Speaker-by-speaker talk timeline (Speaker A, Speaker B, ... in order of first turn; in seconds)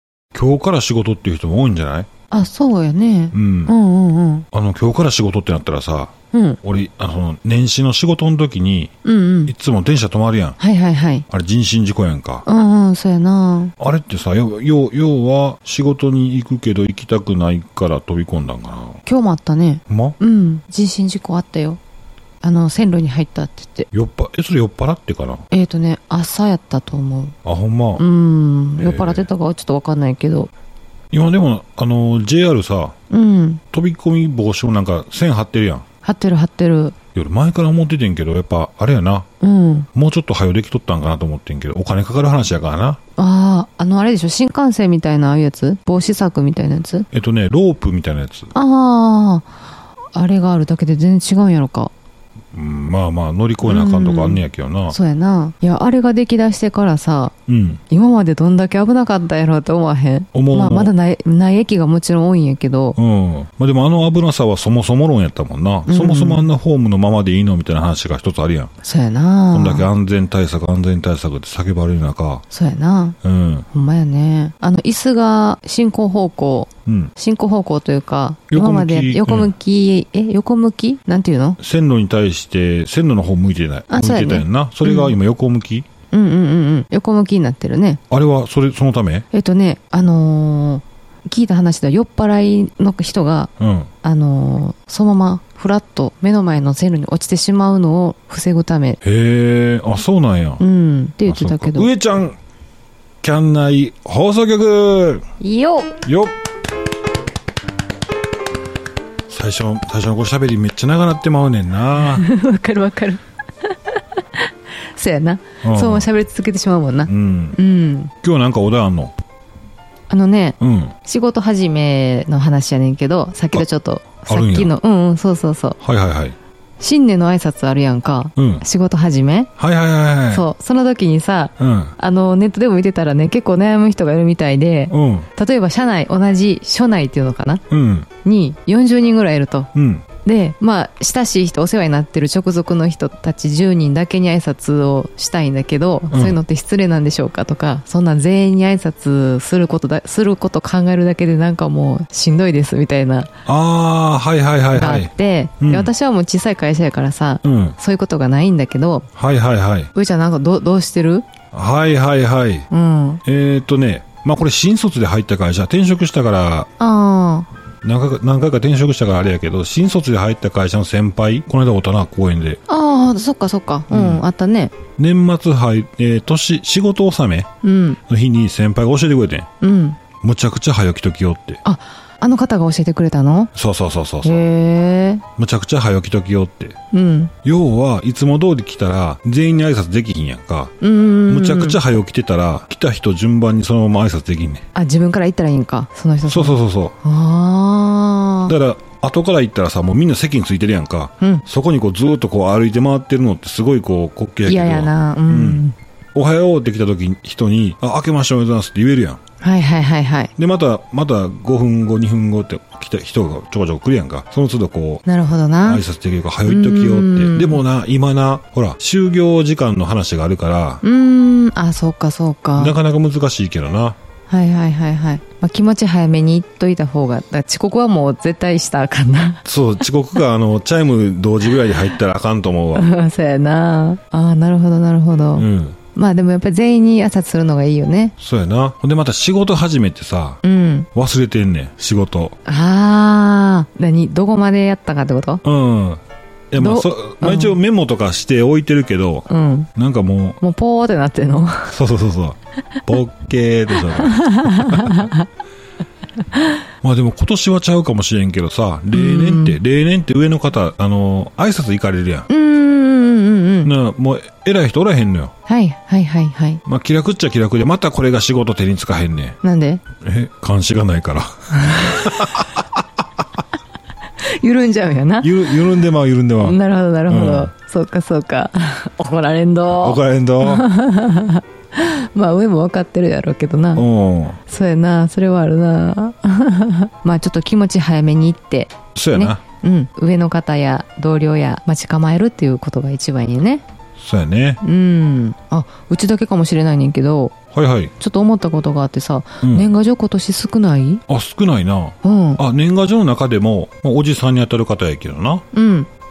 Speaker A: 0.3-2.1, 3.3-3.7, 4.5-8.9, 9.5-10.6, 11.3-12.4, 13.8-19.0, 19.9-20.2, 23.9-25.4, 27.4-28.0, 28.8-29.3, 31.1-33.0, 33.7-35.9, 37.1-39.3, 39.9-43.0, 47.1-48.5, 52.5-55.0, 57.5-57.8, 60.3-60.9, 63.0-68.7, 69.5-72.4, 73.2-73.7, 76.9-77.1, 78.5-79.5, 81.6-85.9, 88.1-89.3, 93.6-93.9, 99.0-100.6, 101.3-102.4, 103.2-105.2, 106.0-106.3, 109.3-112.2, 115.6-116.1, 117.1-117.6, 118.2-119.1, 120.6-121.0, 124.3-124.7, 125.8-126.3, 128.4-128.6, 129.6-130.4, 131.6-131.9, 134.9-135.3, 137.7-138.1, 139.8-140.1, 146.1-146.4, 153.5-155.9, 157.4-157.8, 159.2-159.9, 161.5-162.7, 163.2-166.7, 167.8-172.6, 173.9-174.2, 175.0-177.5, 178.1-179.5, 180.2-181.6, 183.5-184.5, 185.4-186.8, 187.4-190.8, 191.3-194.7, 196.3-197.0, 198.5-209.2, 210.4-215.0, 215.6-220.8, 222.6-224.0, 229.4-232.9, 235.4-235.8, 238.2-240.4, 240.9-242.3, 245.4-250.4, 251.7-255.1, 256.8-262.3, 263.6-265.3, 266.6-269.4, 270.0-272.8, 275.2-276.6, 277.1-277.5, 279.7-280.7, 283.8-284.4, 288.9-289.4, 294.0-294.6, 297.5-297.9, 299.4-299.7, 301.1-305.5
Speaker B: 2.3-4.5, 6.3-6.6, 9.0-9.5, 10.6-11.3, 12.4-13.8, 19.1-21.8, 22.4-23.9, 25.5-27.4, 28.0-30.5, 33.1-33.6, 36.0-37.0, 39.4-39.9, 43.2-47.1, 48.5-49.5, 50.1-51.9, 53.6-57.3, 57.9-63.0, 65.9-66.5, 68.8-69.9, 72.5-73.2, 73.7-81.6, 83.9-85.2, 86.1-88.0, 89.3-93.5, 94.0-99.0, 100.6-101.9, 105.4-106.0, 112.0-113.2, 114.9-118.1, 120.1-125.8, 126.8-129.5, 130.3-137.6, 138.2-139.7, 140.2-153.3, 154.7-159.1, 159.9-161.3, 162.7-163.2, 166.8-167.5, 172.7-174.7, 177.6-178.0, 179.6-180.0, 181.7-183.5, 184.2-185.2, 186.9-187.3, 190.8-191.8, 194.8-198.5, 201.2-201.5, 204.5-205.8, 209.4-210.3, 215.1-215.8, 216.5-217.6, 220.8-222.8, 224.3-229.4, 232.8-238.1, 240.4-240.9, 242.4-245.4, 246.6-247.6, 249.3-249.7, 250.4-251.8, 253.9-255.3, 258.9-259.6, 262.3-263.7, 265.5-266.6, 269.4-269.8, 271.6-271.9, 274.2-275.5, 276.4-283.9, 284.5-293.6, 294.6-297.4, 298.0-301.0, 302.0-302.4, 305.5-305.9